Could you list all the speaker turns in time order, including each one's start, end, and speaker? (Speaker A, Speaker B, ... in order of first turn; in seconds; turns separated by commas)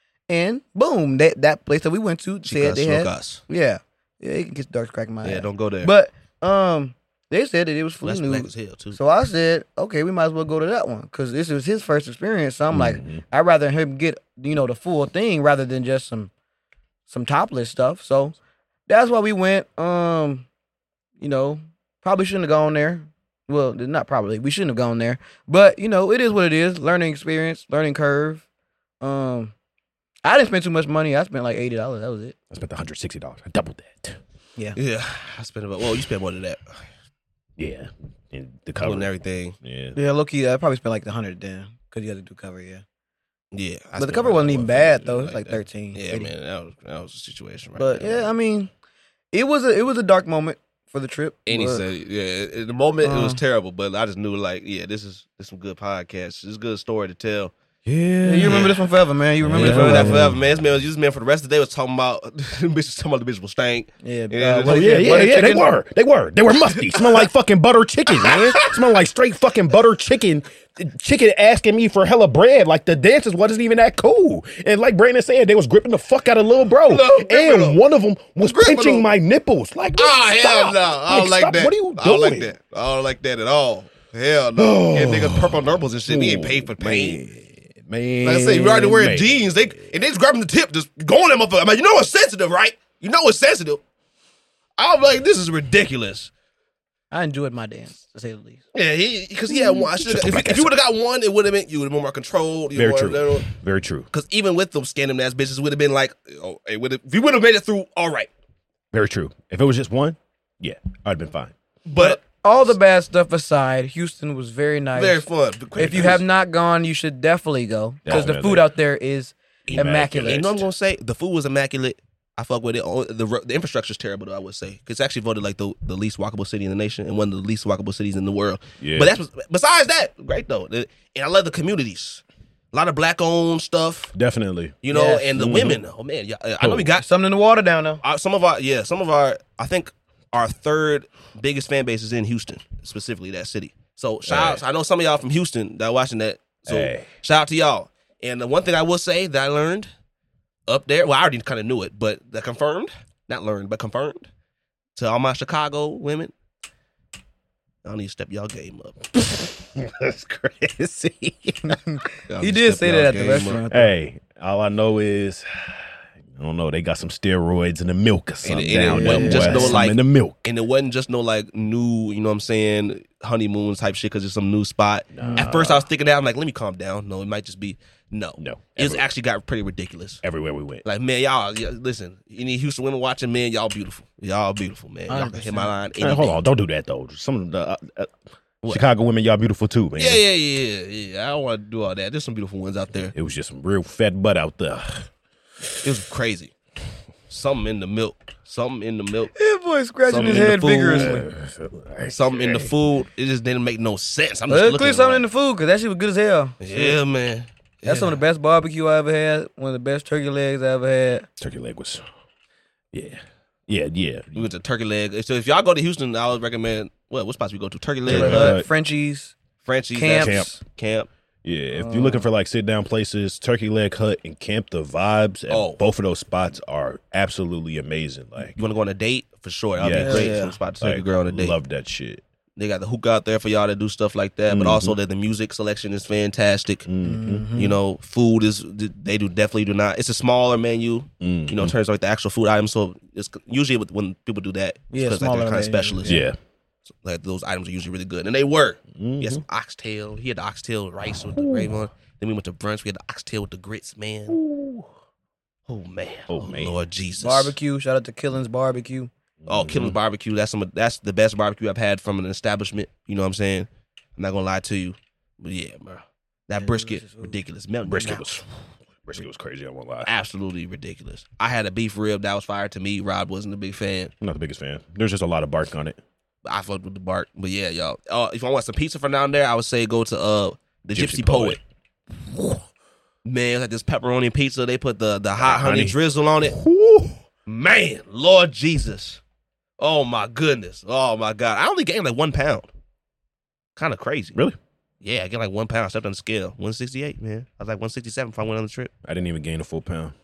Speaker A: 0.3-16.3, Speaker B: 2.4-3.4, Speaker B: 5.2-5.9, Speaker B: 8.0-9.0, Speaker C: 12.7-13.2, Speaker A: 17.1-18.4, Speaker A: 18.9-20.5, Speaker A: 21.2-28.4, Speaker A: 29.0-29.5, Speaker A: 30.2-32.4, Speaker C: 32.5-34.2, Speaker B: 34.8-36.8, Speaker C: 37.6-40.0, Speaker B: 38.8-39.5, Speaker A: 39.9-42.8, Speaker B: 43.5-48.3, Speaker A: 44.0-46.3, Speaker A: 47.8-48.7, Speaker A: 49.3-51.8, Speaker B: 51.5-57.5, Speaker A: 53.0-53.4, Speaker C: 57.9-58.7, Speaker A: 58.2-60.2, Speaker B: 58.4-58.8, Speaker C: 59.4-60.4, Speaker B: 59.5-65.7, Speaker A: 64.0-65.6, Speaker C: 64.7-82.5, Speaker B: 66.9-67.2, Speaker B: 68.2-68.8, Speaker B: 76.9-77.8, Speaker B: 78.5-79.0, Speaker B: 80.0-87.2, Speaker C: 84.5-89.5, Speaker B: 88.2-93.8, Speaker B: 94.8-96.3, Speaker A: 97.1-98.6, Speaker B: 98.7-103.5, Speaker C: 99.9-100.7, Speaker C: 102.7-104.1, Speaker B: 104.1-108.3, Speaker C: 108.9-111.5, Speaker B: 111.8-112.2, Speaker A: 112.0-115.2, Speaker B: 115.0-116.2, Speaker A: 115.8-120.5, Speaker C: 118.0-118.7, Speaker C: 119.7-120.7, Speaker B: 119.8-134.1, Speaker C: 128.8-129.2, Speaker C: 134.1-134.8, Speaker B: 134.8-137.0, Speaker A: 134.9-135.5, Speaker C: 135.3-135.8, Speaker C: 136.6-136.9, Speaker A: 137.0-138.0, Speaker B: 138.0-149.9, Speaker C: 144.2-144.6, Speaker C: 146.7-147.1, Speaker B: 150.7-154.3, Speaker B: 154.9-156.3, Speaker B: 157.8-159.1, Speaker C: 159.1-161.8, Speaker A: 161.6-163.9, Speaker B: 162.3-163.6, Speaker C: 163.7-170.4, Speaker B: 168.4-180.2, Speaker A: 168.9-169.8, Speaker C: 175.1-175.9, Speaker A: 175.2-175.5, Speaker C: 178.4-179.0, Speaker C: 180.2-180.8, Speaker B: 180.8-186.4, Speaker A: 185.1-185.7, Speaker C: 186.0-188.1, Speaker C: 188.7-190.2, Speaker B: 190.0-193.1, Speaker C: 193.1-195.1, Speaker B: 195.8-196.5, Speaker B: 197.3-199.3, Speaker A: 199.3-201.2, Speaker B: 200.1-201.2, Speaker C: 200.2-202.7, Speaker B: 202.1-205.2, Speaker A: 204.5-207.0, Speaker B: 206.6-208.2, Speaker A: 207.8-211.3, Speaker C: 211.4-212.0, Speaker C: 212.9-214.5, Speaker B: 214.3-218.6, Speaker C: 218.1-218.7, Speaker A: 218.1-219.3, Speaker B: 219.6-221.1, Speaker A: 219.9-220.6, Speaker C: 220.2-220.5, Speaker C: 221.4-228.6, Speaker A: 221.7-222.2, Speaker B: 225.5-225.8, Speaker B: 228.5-231.5, Speaker C: 229.8-232.2, Speaker A: 229.9-230.5, Speaker B: 232.6-236.8, Speaker C: 234.5-235.0, Speaker C: 236.9-237.5, Speaker A: 237.0-237.8, Speaker B: 237.5-246.2, Speaker C: 241.2-241.7, Speaker A: 244.9-246.2, Speaker C: 246.0-246.3, Speaker B: 247.0-254.3, Speaker C: 248.9-249.4, Speaker C: 251.1-251.7, Speaker C: 254.3-254.8, Speaker B: 255.7-257.5, Speaker C: 256.3-256.8, Speaker A: 257.2-259.1, Speaker C: 259.4-260.0, Speaker B: 259.5-268.3, Speaker A: 266.6-267.4, Speaker C: 267.8-268.4, Speaker C: 269.0-270.1, Speaker B: 270.0-274.1, Speaker C: 274.2-276.0, Speaker B: 276.4-281.6, Speaker C: 280.9-281.6, Speaker B: 283.2-286.6, Speaker C: 285.4-287.2, Speaker B: 287.4-289.2, Speaker B: 289.8-292.7, Speaker B: 293.8-294.4, Speaker B: 295.0-298.9, Speaker C: 299.0-300.1